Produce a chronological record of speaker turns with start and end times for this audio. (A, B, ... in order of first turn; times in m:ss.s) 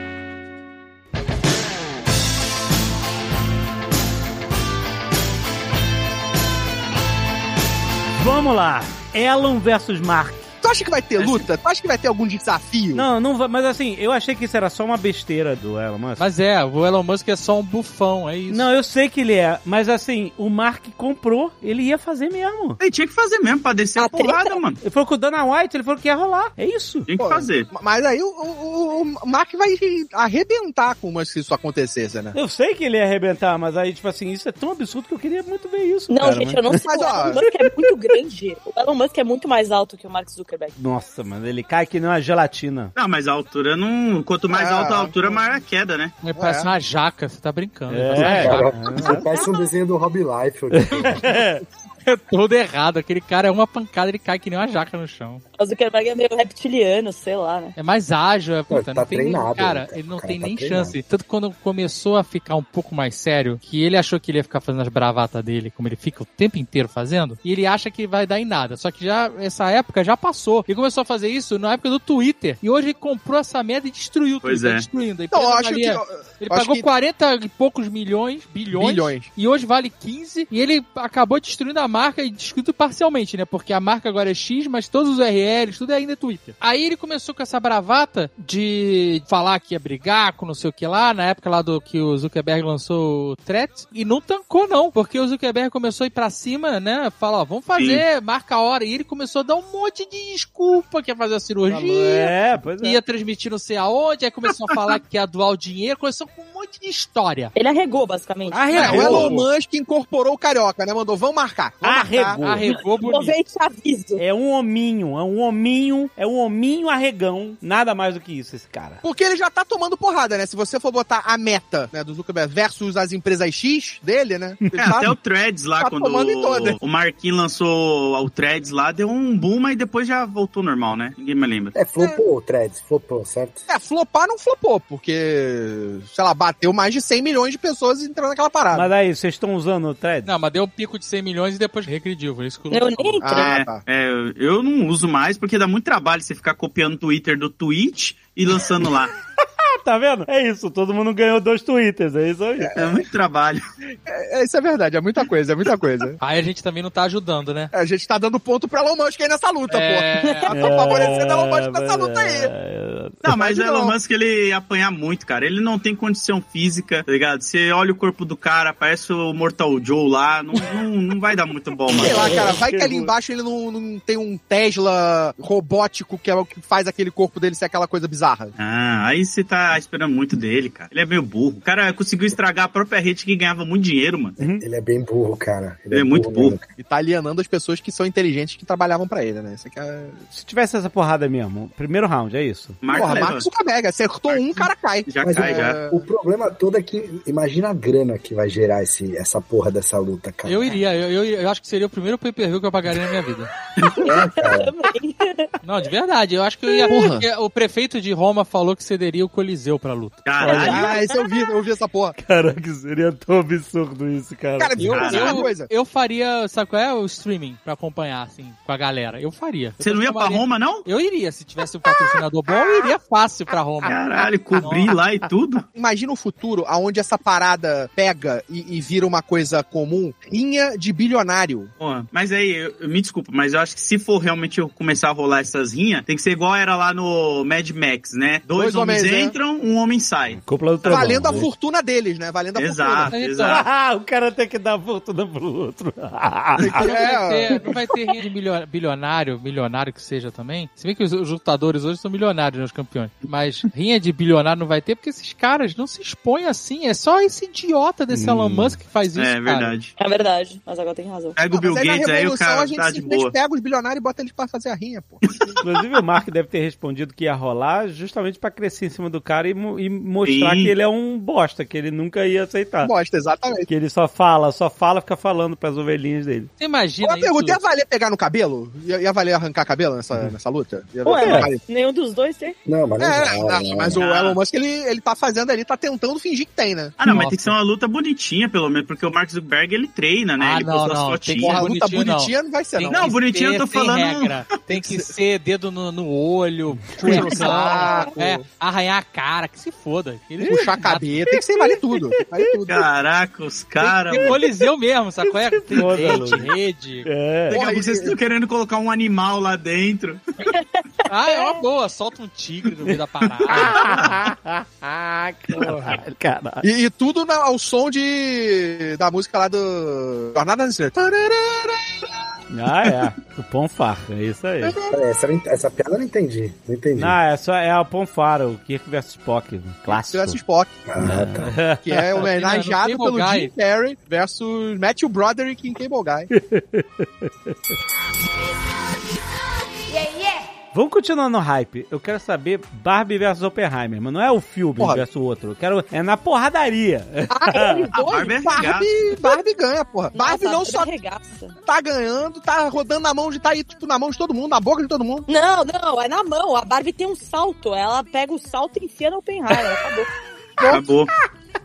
0:08.2-0:10.5 A
0:10.6-0:13.0 B
0:12.9-0:16.2 A
0:16.2-0:18.7 C
0:18.5-0:22.8 A
0:22.8-0:24.8 D
0:24.0-0:24.6 E
0:24.8-0:27.1 A
0:27.1-0:27.7 D
0:27.2-0:32.4 B
0:32.3-0:37.2 A
0:36.1-0:40.8 E
0:36.8-0:37.4 B
0:40.8-0:42.9 A
0:43.0-0:46.2 D
0:44.5-0:45.2 B
0:46.2-0:48.9 C
0:46.4-0:46.7 B
0:47.9-0:49.2 A
0:48.2-0:51.3 F
0:50.7-0:51.6 A
0:52.0-0:55.4 C
0:55.6-0:57.7 E
0:57.8-1:47.5 C
0:58.7-1:01.0 F
1:14.4-1:14.9 D
1:15.3-1:16.9 B
1:18.7-1:19.3 B
1:37.8-1:38.0 D
1:41.7-1:43.0 A
1:47.6-1:49.2 E
1:48.5-1:49.3 A
1:48.5-1:49.5 C
1:48.7-1:52.4 B
1:51.8-1:52.7 A
1:52.4-1:53.4 C
1:52.7-1:54.2 E
1:54.2-1:59.0 A
1:59.0-2:05.1 B
2:04.8-2:11.8 D
2:05.8-2:06.8 B
2:11.8-2:13.6 F
2:13.7-2:18.9 B
2:18.7-2:20.3 A
2:20.2-2:23.3 C
2:22.7-2:23.6 E
2:23.2-2:23.8 B
2:23.3-2:29.1 D
2:29.8-2:32.7 A
2:32.8-2:33.6 D
2:34.1-2:36.2 B
2:36.2-2:37.7 C
2:37.7-2:42.5 B
2:39.7-2:40.5 C
2:40.2-2:40.5 E
2:40.5-2:43.2 A
2:43.2-2:52.4 D
2:43.3-2:44.0 B
2:51.9-2:58.6 B
2:52.1-2:53.1 A
2:58.6-3:04.4 D
3:04.4-3:04.6 A
3:04.6-3:06.7 F
3:05.9-3:06.6 D
3:06.8-3:10.2 B
3:10.3-3:13.1 A
3:12.8-3:13.5 D
3:12.9-3:16.0 B
3:14.3-3:15.8 D
3:15.2-3:20.7 F
3:20.5-3:23.5 C
3:23.9-3:24.7 F
3:24.0-3:25.5 E
3:25.6-3:30.3 C
3:26.9-3:27.2 B
3:30.2-3:31.0 D
3:30.4-3:31.0 A
3:30.5-3:32.2 B
3:32.2-3:35.1 A
3:34.6-3:35.7 B
3:34.8-3:44.0 C
3:34.9-3:35.4 D
3:39.8-3:40.9 D
3:43.9-3:45.6 D
3:44.6-3:44.9 C
3:45.8-3:51.7 B
3:51.8-4:01.1 D
3:58.5-3:59.4 B
4:00.3-4:01.5 A
4:00.9-4:03.2 B
4:02.6-4:03.7 D
4:03.1-4:03.6 C
4:03.4-4:06.9 A
4:06.6-4:07.6 B
4:06.8-4:19.7 C
4:18.1-4:18.8 A
4:19.1-4:19.9 D
4:20.0-4:21.4 E
4:21.4-4:23.3 D
4:21.5-4:25.3 B
4:25.3-4:25.6 D
4:25.6-4:32.9 A
4:30.2-4:30.7 D
4:32.8-4:33.7 B
4:33.7-4:36.5 A
4:36.6-4:37.6 C
4:37.0-4:41.6 B
4:41.0-4:42.6 E
4:41.2-4:41.5 A
4:42.7-4:44.0 F
4:43.0-4:47.0 B
4:44.0-4:44.4 D
4:47.0-4:51.6 D
4:47.0-4:47.5 C
4:50.4-5:01.2 C
4:51.4-4:53.1 B
4:52.9-4:54.4 D
4:54.7-4:55.1 B
4:57.0-4:57.3 A
4:57.0-4:58.4 B
4:57.3-4:58.1 E
5:00.4-5:02.9 B
5:01.3-5:02.6 A
5:02.7-5:04.4 D
5:03.8-5:07.1 C
5:05.2-5:06.5 A
5:05.8-5:06.4 D
5:07.0-5:07.6 A
5:07.5-5:08.2 B
5:07.5-5:10.5 D
5:10.5-5:11.6 E
5:11.1-5:14.0 C
5:13.5-5:16.7 A
5:15.6-5:15.9 C
5:16.6-5:22.0 B
5:22.5-5:24.8 A
5:24.6-5:24.9 B
5:24.9-5:27.2 F
5:27.0-5:30.4 A
5:29.9-5:30.8 B
5:30.9-5:31.6 F
5:31.0-5:32.2 A
5:31.8-5:36.3 B
5:32.2-5:33.5 C
5:36.3-5:37.6 A
5:39.9-5:40.5 E
5:40.7-5:47.9 A
5:44.8-5:45.0 B
5:47.3-5:48.4 E
5:47.9-5:48.9 D
5:48.2-5:50.9 B
5:50.1-5:51.6 E
5:51.7-5:55.3 B
5:55.3-6:00.1 E
6:00.6-6:01.1 D